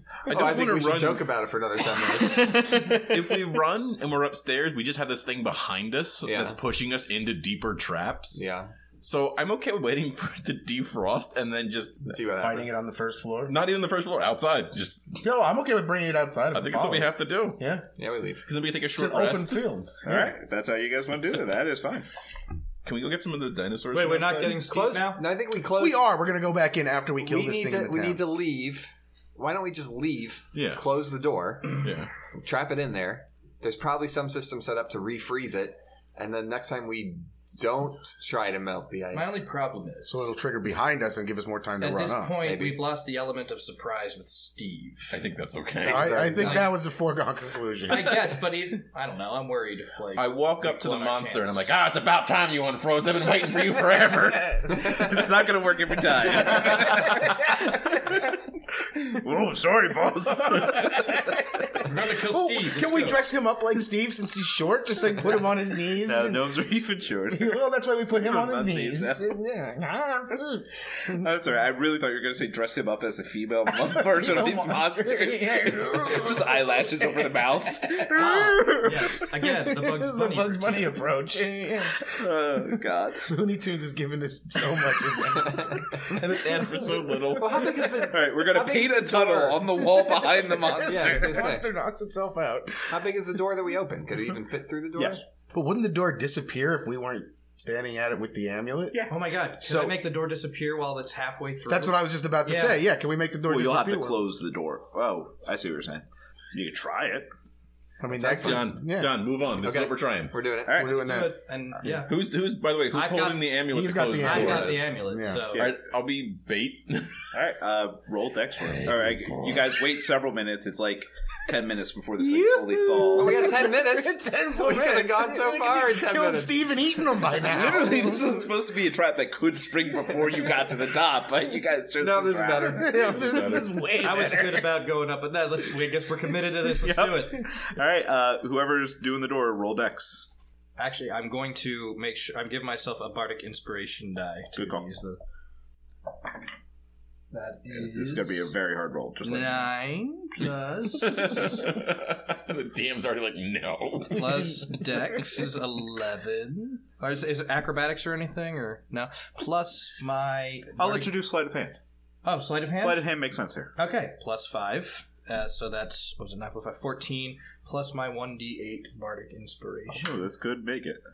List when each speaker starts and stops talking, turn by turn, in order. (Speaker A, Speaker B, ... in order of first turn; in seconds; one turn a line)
Speaker A: 0.3-1.3
Speaker B: 0.3-2.8
Speaker C: 2.0-3.5
Speaker A: 3.0-8.4
Speaker B: 6.2-6.6
Speaker B: 8.3-8.7
Speaker A: 9.0-12.2
Speaker B: 12.1-12.7
Speaker D: 12.3-13.6
Speaker A: 13.5-15.2
Speaker D: 15.2-17.9
Speaker A: 16.5-17.7
Speaker B: 18.0-18.4
Speaker A: 18.5-19.6
Speaker D: 18.9-20.4
Speaker C: 20.0-22.1
Speaker A: 22.8-24.6
Speaker E: 23.9-25.2
Speaker B: 24.6-26.1
Speaker D: 25.7-28.2
Speaker B: 27.2-31.8
Speaker A: 30.6-30.8
Speaker A: 31.8-32.1
Speaker B: 32.3-39.5
Speaker E: 39.1-40.3
Speaker D: 40.1-42.4
Speaker E: 41.8-45.2
Speaker B: 42.4-42.9
Speaker A: 45.1-46.4
Speaker D: 45.9-48.1
Speaker B: 45.9-46.7
Speaker E: 46.4-46.7
Speaker E: 47.9-51.7
Speaker A: 50.1-55.0
Speaker C: 54.7-58.3
Speaker A: 56.4-57.3
Speaker C: 59.0-61.3
Speaker D: 60.4-66.5
Speaker E: 61.8-63.2
Speaker C: 65.9-67.6
Speaker D: 67.3-71.3
Speaker C: 68.1-69.3
Speaker C: 71.0-79.2
Speaker D: 73.7-78.5
Speaker E: 78.1-81.0
Speaker D: 79.4-82.1
Speaker C: 82.0-83.3
Speaker D: 82.7-87.2
Speaker B: 85.2-86.0
Speaker A: 86.0-87.9
Speaker B: 87.3-91.7
Speaker C: 88.0-91.5
Speaker D: 89.4-93.0
Speaker B: 92.8-95.2
Speaker C: 95.0-95.2
Speaker D: 95.5-99.1
Speaker E: 99.1-102.8
Speaker D: 99.6-100.0
Speaker D: 101.7-104.2
Speaker C: 103.5-107.3
Speaker D: 108.0-109.1
Speaker B: 108.1-108.7
Speaker A: 108.3-110.4
Speaker B: 109.6-110.8
Speaker C: 110.6-110.9
Speaker D: 110.7-111.4
Speaker E: 110.8-112.2
Speaker A: 112.0-114.8
Speaker E: 112.9-113.5
Speaker D: 113.7-115.5
Speaker E: 114.2-115.7
Speaker B: 114.3-114.8
Speaker A: 115.6-117.4
Speaker C: 117.3-123.6
Speaker A: 118.6-119.7
Speaker D: 122.2-128.4
Speaker B: 122.8-127.2
Speaker C: 127.4-133.0
Speaker B: 132.0-133.6
Speaker D: 132.7-134.8
Speaker A: 133.0-133.9
Speaker E: 134.0-137.4
Speaker C: 136.7-140.3
Speaker E: 140.8-145.2
Speaker C: 144.6-144.9
Speaker E: 147.3-148.5
Speaker C: 147.7-149.7
Speaker E: 149.2-151.8
Speaker A: 151.0-155.3
Speaker E: 154.1-161.2
Speaker C: 160.8-161.8
Speaker E: 162.2-163.1
Speaker C: 162.7-163.7
Speaker E: 163.8-170.1
Speaker C: 169.9-171.0